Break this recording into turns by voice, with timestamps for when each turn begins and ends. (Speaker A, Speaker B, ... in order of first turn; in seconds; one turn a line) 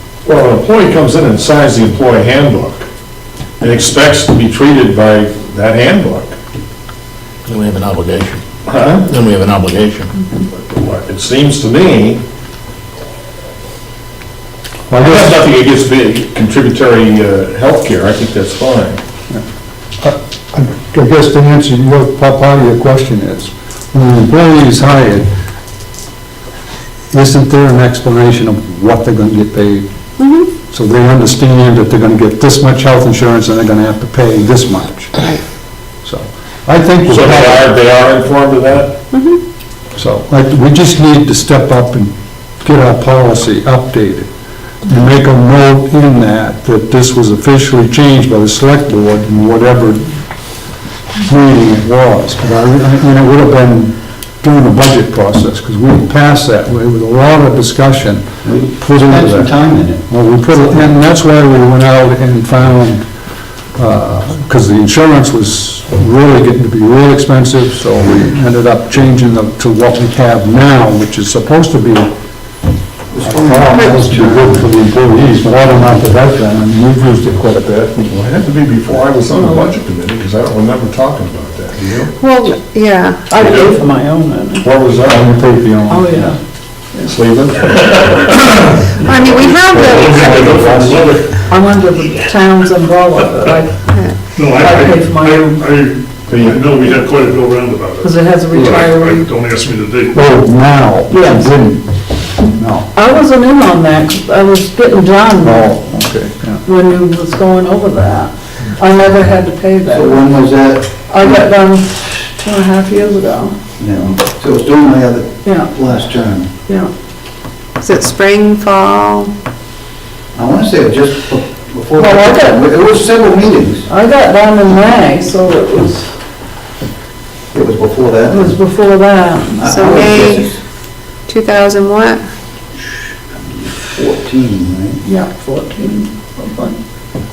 Speaker A: 0.2-2.9
Speaker A: 3.6-6.4
Speaker B: 7.5-8.4
Speaker A: 8.7-9.0
Speaker B: 9.1-10.1
Speaker A: 10.6-12.2
Speaker C: 14.9-15.4
Speaker A: 15.0-19.0
Speaker C: 20.0-25.3
Speaker C: 27.1-29.9
Speaker D: 30.2-30.5
Speaker C: 30.7-35.3
Speaker C: 36.0-37.7
Speaker A: 37.1-39.0
Speaker D: 39.1-39.4
Speaker C: 40.0-44.3
Speaker C: 44.8-50.2
Speaker C: 51.2-59.5
Speaker E: 58.5-60.0
Speaker C: 60.1-63.1
Speaker C: 63.8-72.1
Speaker E: 73.1-74.7
Speaker C: 73.2-78.1
Speaker A: 78.1-82.1
Speaker F: 79.3-79.8
Speaker D: 82.2-83.3
Speaker F: 83.3-84.7
Speaker A: 83.4-83.7
Speaker A: 84.6-85.3
Speaker C: 85.0-86.3
Speaker F: 85.9-86.4
Speaker A: 87.1-91.3
Speaker D: 89.0-91.1
Speaker C: 89.4-91.2
Speaker F: 91.5-93.9
Speaker D: 93.9-94.2
Speaker G: 94.4-98.1
Speaker F: 94.4-95.7
Speaker A: 96.3-97.0
Speaker F: 98.0-99.3
Speaker G: 98.6-100.2
Speaker C: 100.1-101.9
Speaker F: 101.1-101.6
Speaker C: 102.4-102.9
Speaker F: 102.9-105.8
Speaker C: 105.4-106.6
Speaker F: 106.7-110.2
Speaker E: 109.9-111.0
Speaker F: 111.1-113.6
Speaker E: 113.8-116.5
Speaker F: 115.5-115.7
Speaker D: 117.8-119.3
Speaker E: 120.3-123.9
Speaker F: 122.0-122.7
Speaker F: 123.9-126.1
Speaker E: 127.5-128.6
Speaker F: 128.3-129.7
Speaker E: 129.6-130.6
Speaker D: 129.7-130.5
Speaker D: 131.3-132.2
Speaker E: 133.4-135.0
Speaker F: 135.1-136.8